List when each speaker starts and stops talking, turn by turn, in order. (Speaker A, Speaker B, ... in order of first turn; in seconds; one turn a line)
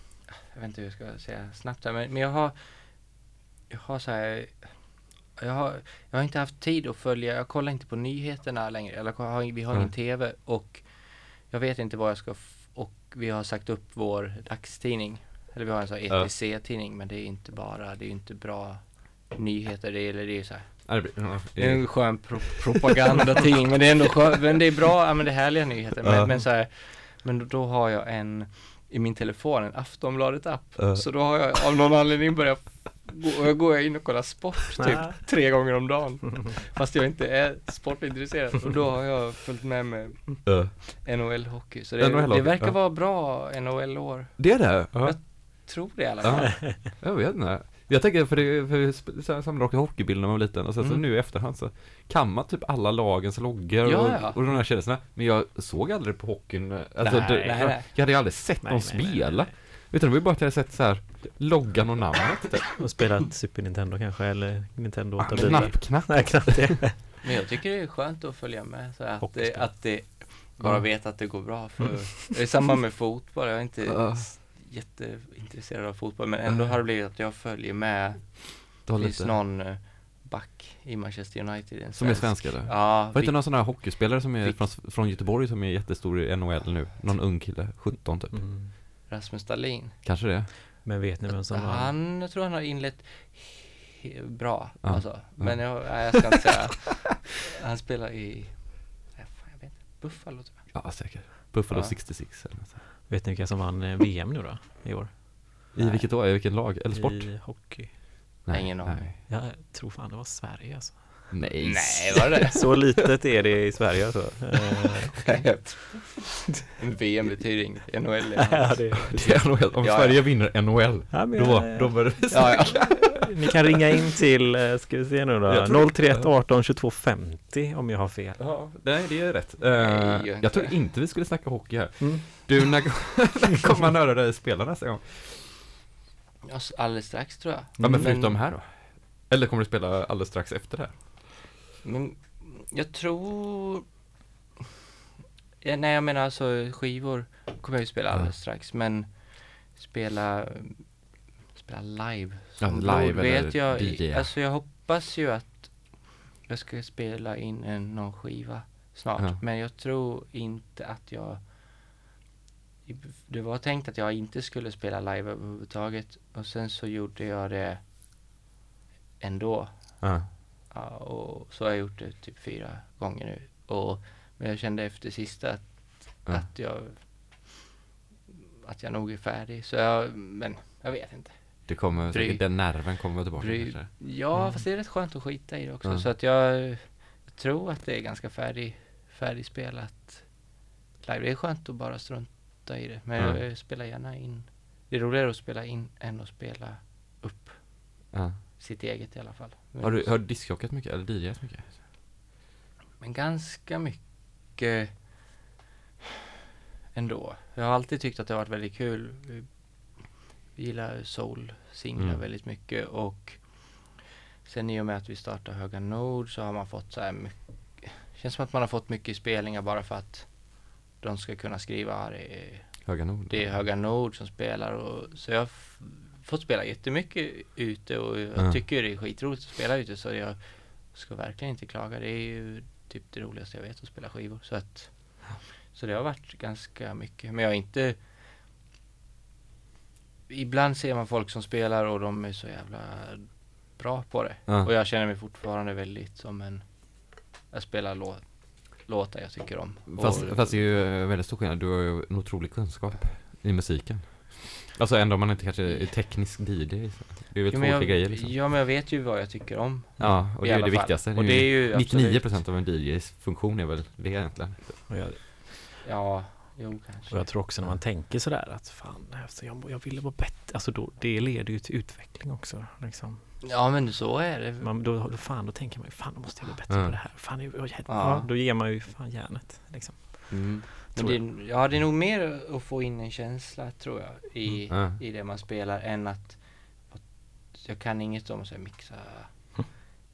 Speaker A: 0.5-46.6
Speaker B: 20.9-22.7
Speaker B: 26.0-26.3
Speaker B: 30.8-31.0
Speaker C: 34.8-35.2
Speaker B: 40.5-41.0
Speaker B: 42.0-42.8
Speaker B: 44.4-45.5
Speaker B: 46.2-62.7
Speaker A: 53.8-54.6
Speaker A: 57.0-58.2
Speaker C: 58.6-59.5
Speaker C: 62.8-67.0
Speaker A: 65.3-66.2
Speaker B: 65.3-66.9
Speaker A: 67.2-84.7
Speaker C: 69.2-70.0
Speaker B: 73.9-74.3
Speaker B: 78.9-79.4
Speaker B: 82.0-88.7
Speaker C: 88.2-88.7
Speaker A: 89.1-90.0
Speaker B: 90.0-90.5
Speaker C: 90.8-91.9
Speaker A: 91.5-102.0
Speaker B: 94.8-96.2
Speaker B: 100.7-102.9
Speaker C: 103.1-105.2
Speaker A: 105.7-106.0
Speaker B: 105.8-107.8
Speaker C: 106.9-108.5
Speaker B: 108.5-109.2
Speaker A: 108.5-109.1
Speaker C: 109.3-111.6
Speaker B: 111.3-112.5
Speaker A: 111.6-112.6
Speaker C: 112.5-115.5
Speaker A: 115.2-119.2
Speaker C: 118.4-119.6
Speaker B: 119.2-123.1
Speaker A: 119.8-120.2
Speaker C: 121.1-128.5
Speaker A: 122.3-122.9
Speaker B: 125.5-126.3
Speaker B: 128.4-135.6
Speaker A: 129.8-130.8
Speaker C: 132.0-132.2
Speaker A: 136.4-138.4
Speaker C: 137.8-138.2
Speaker B: 137.8-141.3
Speaker A: 141.8-143.9
Speaker A: 145.6-161.9
Speaker B: 152.6-154.4
Speaker A: 162.8-167.9
Speaker A: 169.2-177.6
Speaker B: 170.0-170.3
Speaker A: 178.3-200.2
Speaker B: 181.7-184.0
Speaker B: 198.1-198.4
Speaker B: 199.8-201.8
Speaker A: 203.0-205.3
Speaker A: 206.9-238.0
Speaker B: 222.9-223.6
Speaker A: 240.3-250.7
Speaker B: 249.9-258.4
Speaker A: 255.6-255.9
Speaker A: 257.5-262.4
Speaker B: 260.0-265.1
Speaker C: 264.9-265.2
Speaker A: 265.8-267.8
Speaker C: 267.1-273.4
Speaker A: 273.4-274.7
Speaker C: 274.6-281.1
Speaker B: 276.7-277.0
Speaker A: 277.9-278.3
Speaker A: 280.3-289.8
Speaker B: 280.3-281.2
Speaker B: 284.7-285.0